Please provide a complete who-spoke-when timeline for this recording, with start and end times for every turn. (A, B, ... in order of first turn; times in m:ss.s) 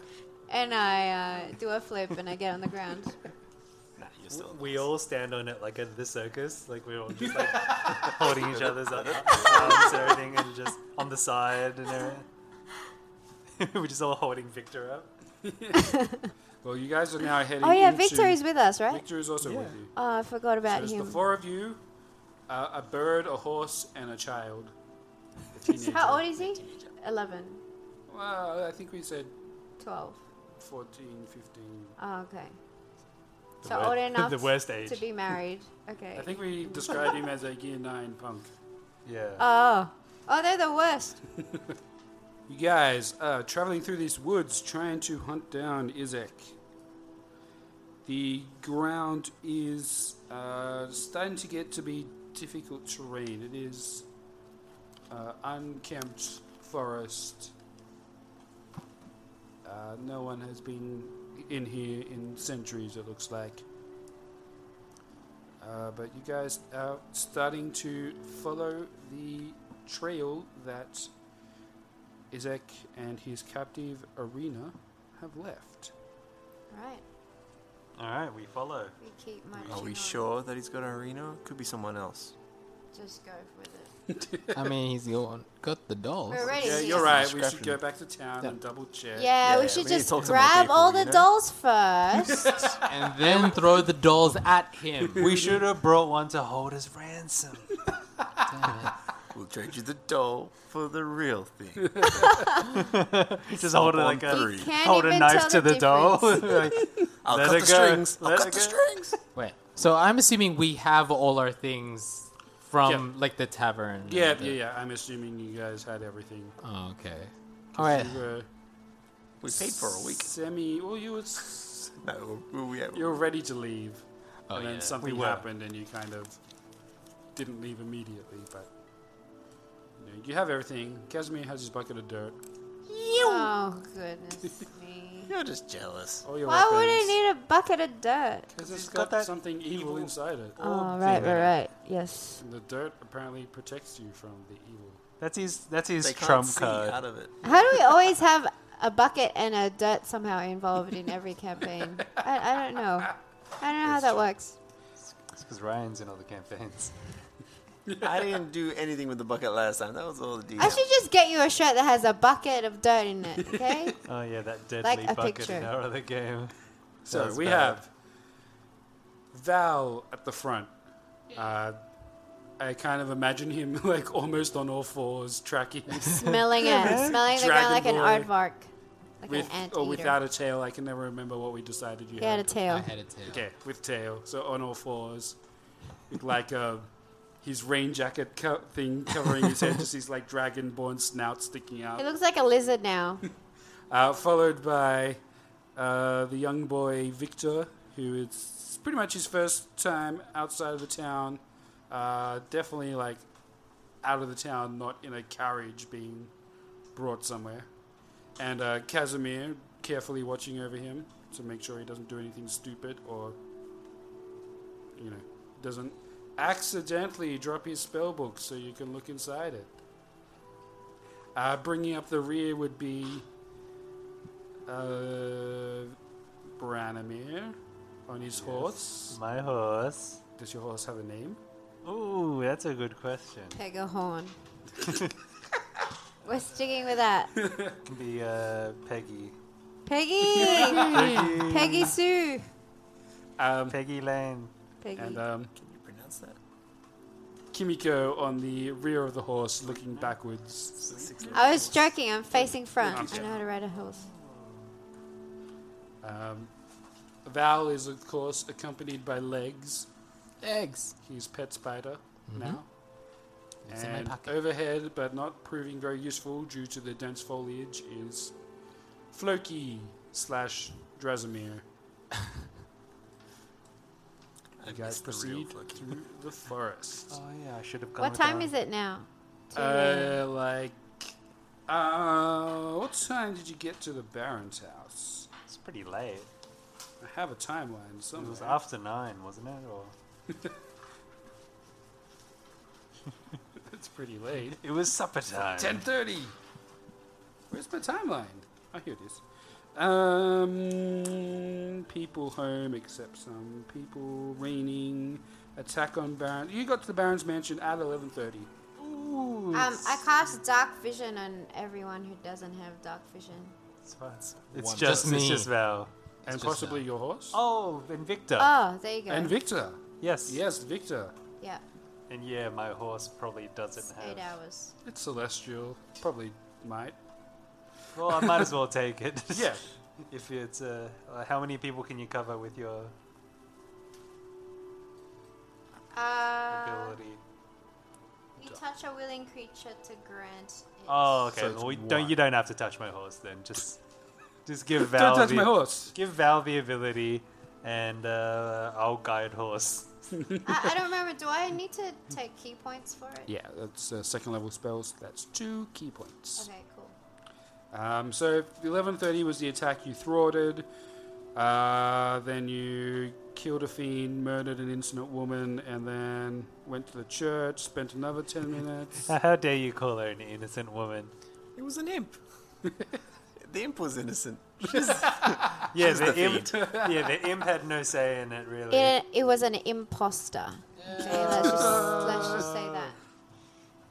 0:00.5-0:03.2 A
0:04.0-0:04.9 B
0:04.3-0:12.3 C
0:08.2-0:10.2 B
0:13.6-0:15.1 C
0:15.4-0:15.9 D
0:15.7-0:16.3 A
0:16.6-0:19.9 D
0:17.6-0:19.0 A
0:19.4-0:19.8 C
0:20.0-0:21.2 A
0:20.7-0:21.8 D
0:22.5-0:24.7 D
0:25.5-0:26.4 D
0:25.7-0:27.6 A
0:26.4-0:26.9 B
0:28.1-0:29.3 D
0:29.8-0:30.2 A
0:30.6-0:32.0 D
0:32.0-0:32.6 A
0:33.6-0:35.1 C
0:33.6-0:37.2 A
0:36.2-0:38.5 D
0:39.0-0:39.4 C
0:39.4-0:41.2 A
0:42.5-0:46.6 D
0:48.0-0:54.0 D
0:55.1-0:57.5 D
0:59.6-1:03.6 D
1:05.6-1:11.1 D
1:12.3-1:15.9 D
1:16.7-1:17.0 A
1:18.0-1:19.0 C
1:19.0-1:20.3 A
1:19.6-1:19.8 C
1:19.7-1:22.3 B
1:22.9-1:23.9 A
1:24.5-1:27.8 E
1:26.3-1:27.2 A
1:26.4-1:29.6 D
1:27.1-1:27.4 B
1:29.2-1:32.6 A
1:29.4-1:31.3 B
1:32.4-1:33.6 D
1:32.8-1:35.3 E
1:35.2-1:35.5 D
1:35.2-1:37.7 C
1:38.5-1:39.0 E
1:39.3-1:42.4 B
1:41.9-1:42.4 D
1:42.2-1:42.6 A
1:42.8-1:49.2 C
1:43.5-1:44.7 B
1:44.3-1:46.5 A
1:47.2-1:49.2 B
1:49.4-1:54.6 E
1:52.8-1:53.1 D
1:54.1-1:56.6 D
1:56.6-1:58.3 E
1:57.7-1:58.5 D
1:59.4-2:00.4 B
1:59.5-2:02.0 D
2:02.0-2:03.3 B
2:02.9-2:06.4 D
2:04.5-2:05.0 E
2:05.0-2:05.5 C
2:07.4-2:08.7 D
2:10.0-2:12.4 D
2:13.1-2:15.3 A
2:15.3-2:16.3 B
2:16.2-2:17.2 D
2:16.4-2:18.5 A
2:18.5-2:21.3 D
2:18.6-2:21.5 C
2:20.6-2:22.4 A
2:22.4-2:25.0 D
2:25.2-2:27.0 C
2:26.0-2:27.4 B
2:27.4-2:34.6 A
2:33.9-2:34.2 B
2:35.2-2:37.1 C
2:38.0-2:40.9 B
2:40.6-2:44.0 A
2:44.0-2:46.5 C
2:44.8-2:45.7 A
2:47.0-2:47.9 D
2:47.1-2:47.8 C
2:49.3-2:50.7 D
2:51.3-2:51.8 D
2:52.6-2:58.3 D
2:56.1-2:58.7 A
2:56.6-2:57.3 C
2:59.2-3:00.2 A
2:59.3-3:02.7 D
3:02.2-3:02.9 A
3:02.7-3:03.4 E
3:03.2-3:05.4 D
3:06.1-3:06.9 D
3:07.4-3:12.0 D
3:12.0-3:13.2 A
3:13.9-3:15.2 D
3:15.8-3:23.2 D
3:24.0-3:26.3 D
3:26.9-3:27.7 D
3:28.4-3:33.4 D
3:35.0-3:39.7 D
3:41.4-3:43.2 D
3:44.7-3:46.0 D
3:46.6-3:47.6 D
3:48.1-3:49.2 D
3:48.3-3:50.2 C
3:50.4-3:51.4 D
3:51.8-3:53.6 C
3:53.5-3:54.4 A
3:56.2-3:57.3 A
3:57.4-3:57.8 D
3:57.8-3:59.4 C
3:59.9-4:02.5 A
4:00.4-4:01.4 D
4:00.4-4:02.0 C
4:03.4-4:03.8 D
4:03.7-4:04.5 C
4:04.8-4:05.2 A
4:05.0-4:05.5 D
4:05.6-4:06.4 B
4:07.5-4:11.0 D
4:09.6-4:10.2 C
4:10.8-4:14.7 C
4:10.9-4:11.8 B
4:11.3-4:14.1 A
4:12.8-4:13.4 D
4:16.0-4:16.5 D
4:17.2-4:19.9 D
4:20.4-4:21.0 E
4:21.0-4:22.7 D
4:22.3-4:22.6 E
4:23.7-4:24.3 E
4:23.7-4:28.4 D
4:29.1-4:31.6 D
4:34.6-4:36.0 B
4:34.6-4:37.2 D
4:37.1-4:38.5 C
4:38.0-4:40.2 A
4:39.5-4:41.1 D
4:41.7-4:45.3 D
4:45.5-4:46.3 C
4:47.0-4:48.6 D
4:48.1-4:49.9 C
4:53.7-4:54.6 D
4:54.4-4:55.8 C
4:55.4-4:56.4 D
4:57.5-4:59.2 D
4:59.8-5:08.5 D
5:08.8-5:10.1 C
5:09.5-5:13.6 A
5:13.9-5:15.9 C
5:14.6-5:15.0 B
5:14.7-5:15.5 E
5:16.3-5:16.9 E
5:16.3-5:17.4 D
5:17.3-5:18.5 C
5:18.4-5:19.4 A
5:19.1-5:21.2 D
5:20.0-5:20.4 C
5:22.1-5:24.3 C
5:24.0-5:24.7 A
5:24.8-5:27.0 D
5:28.0-5:32.9 C
5:28.1-5:28.5 D
5:29.3-5:29.6 D
5:35.9-5:37.0 A
5:36.5-5:37.2 C
5:38.4-5:41.2 A
5:40.9-5:43.8 C
5:41.3-5:42.2 D
5:44.5-5:50.1 C
5:44.8-5:46.0 D
5:50.4-5:53.3 A
5:53.3-5:56.5 D
5:56.4-5:57.0 A
5:57.7-6:00.7 D
6:01.4-6:09.1 D
6:09.1-6:11.1 C
6:11.6-6:12.2 B
6:13.4-6:16.7 B
6:15.7-6:19.0 C
6:16.6-6:16.9 D
6:18.7-6:23.0 A
6:20.8-6:21.7 E
6:21.0-6:22.9 C
6:21.4-6:22.5 D